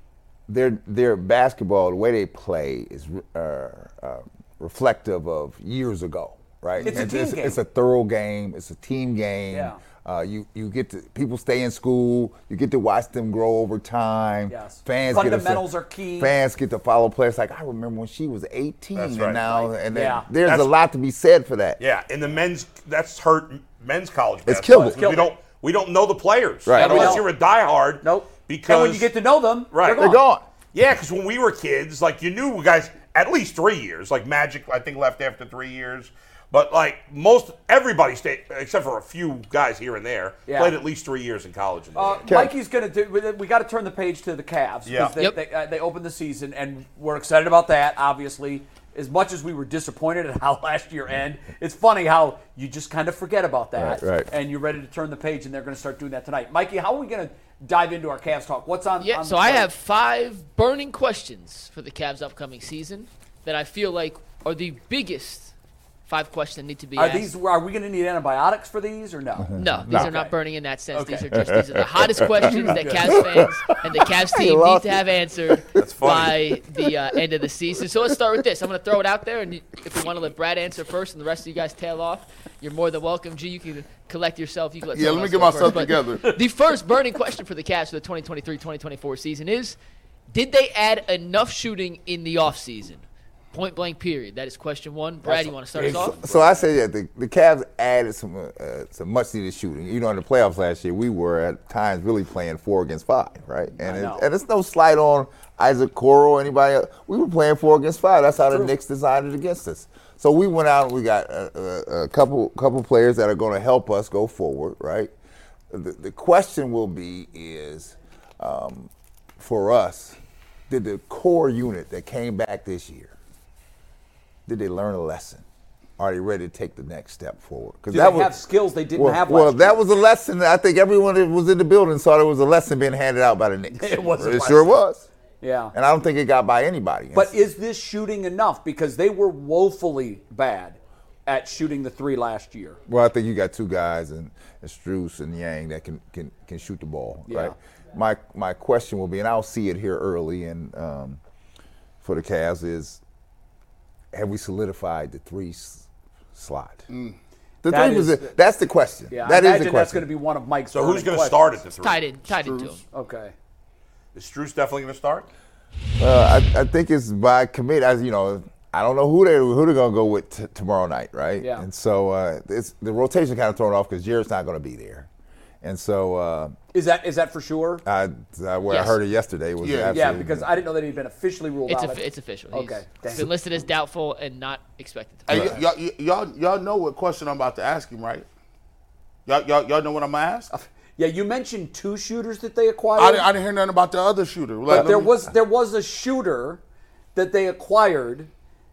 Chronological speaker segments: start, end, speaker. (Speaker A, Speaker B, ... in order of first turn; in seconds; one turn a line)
Speaker A: 0.5-21.8
Speaker B: 6.8-7.6
Speaker B: 9.5-9.8
Speaker B: 14.5-16.3
Speaker C: 18.9-19.7
Speaker B: 19.7-20.3
Speaker C: 20.4-20.7
Speaker C: 21.8-29.1
Speaker A: 24.4-25.1
Speaker B: 24.7-25.3
Speaker A: 26.6-27.2
Speaker B: 26.7-27.3
Speaker B: 28.0-30.2
Speaker C: 29.7-30.1
Speaker A: 29.9-30.4
Speaker C: 30.7-42.2
Speaker B: 40.5-40.8
Speaker B: 41.9-59.7
Speaker A: 42.3-42.5
Speaker C: 44.9-45.2
Speaker A: 53.8-54.3
Speaker D: 59.0-65.5
Speaker D: 66.1-67.3
Speaker B: 67.0-70.3
Speaker A: 69.4-70.1
Speaker D: 69.5-89.8
Speaker B: 70.9-71.3
Speaker A: 71.3-78.2
Speaker B: 72.4-73.2
Speaker C: 75.8-76.4
Speaker E: 84.9-86.3
Speaker D: 90.3-96.2
Speaker B: 95.2-96.6
Speaker A: 95.8-115.1
Speaker B: 103.8-104.3
Speaker B: 108.5-108.7
Speaker A: 115.7-120.2
Speaker A: 120.7-123.1
Speaker A: 124.5-125.4
Speaker A: 126.0-128.4
Speaker B: 127.9-129.8
Speaker A: 128.9-135.1
Speaker B: 133.7-134.8
Speaker B: 135.4-135.7
Speaker A: 135.7-137.4
Speaker B: 137.1-142.8
Speaker A: 142.9-151.2
Speaker B: 147.3-147.5
Speaker A: 152.0-153.0
Speaker A: 154.1-156.8
Speaker E: 156.9-157.2
Speaker A: 157.6-160.1
Speaker B: 157.7-158.3
Speaker B: 159.1-161.6
Speaker C: 160.7-162.0
Speaker D: 161.8-162.8
Speaker E: 162.3-162.8
Speaker B: 162.9-163.3
Speaker C: 164.1-165.3
Speaker A: 166.0-175.1
Speaker B: 171.4-171.7
Speaker A: 175.6-176.5
Speaker B: 176.7-177.8
Speaker A: 177.8-180.5
Speaker D: 178.7-178.9
Speaker E: 179.6-180.2
Speaker B: 179.9-183.3
Speaker D: 181.7-185.5
Speaker E: 185.3-188.3
Speaker A: 185.3-185.6
Speaker E: 189.2-190.5
Speaker B: 190.5-193.3
Speaker E: 192.9-195.2
Speaker B: 194.7-196.6
Speaker B: 197.1-198.3